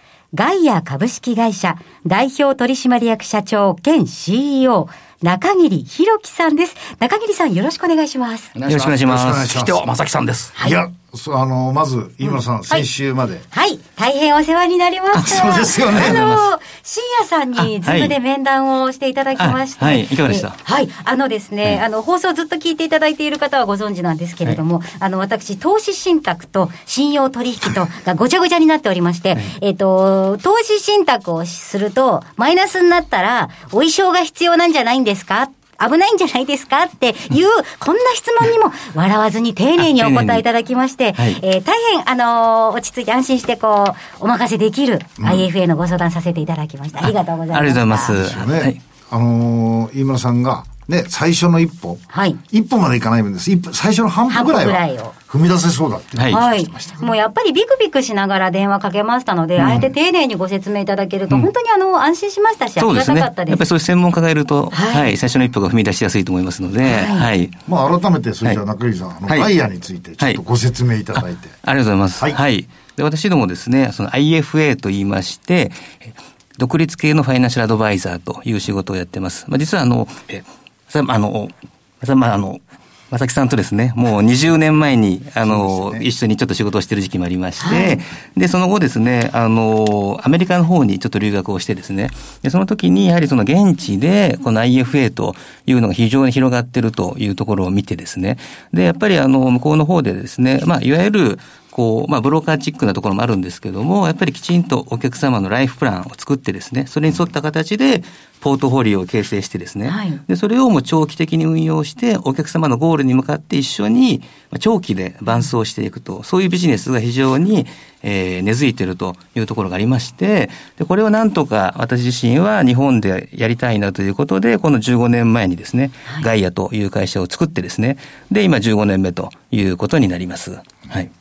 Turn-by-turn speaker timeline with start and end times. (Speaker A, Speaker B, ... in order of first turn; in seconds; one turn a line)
Speaker A: 0.3-8.5
Speaker B: 8.5-10.5
Speaker C: 8.7-9.5
Speaker D: 9.1-9.8
Speaker D: 10.6-13.4
Speaker A: 13.5-48.2
Speaker C: 15.1-16.5
Speaker D: 15.1-16.2
Speaker C: 17.6-18.1
Speaker C: 19.4-20.6
Speaker C: 39.8-40.4
Speaker D: 45.2-45.5
Speaker C: 47.1-48.8
Speaker D: 48.1-57.1
Speaker A: 52.1-52.4
Speaker A: 54.3-55.1
Speaker A: 56.3-63.6
Speaker C: 62.8-67.5
Speaker A: 64.7-65.1
Speaker A: 66.8-67.3
Speaker D: 67.7-71.5
Speaker C: 71.6-131.1
Speaker D: 85.4-86.1
Speaker A: 87.6-88.0
Speaker A: 109.8-110.2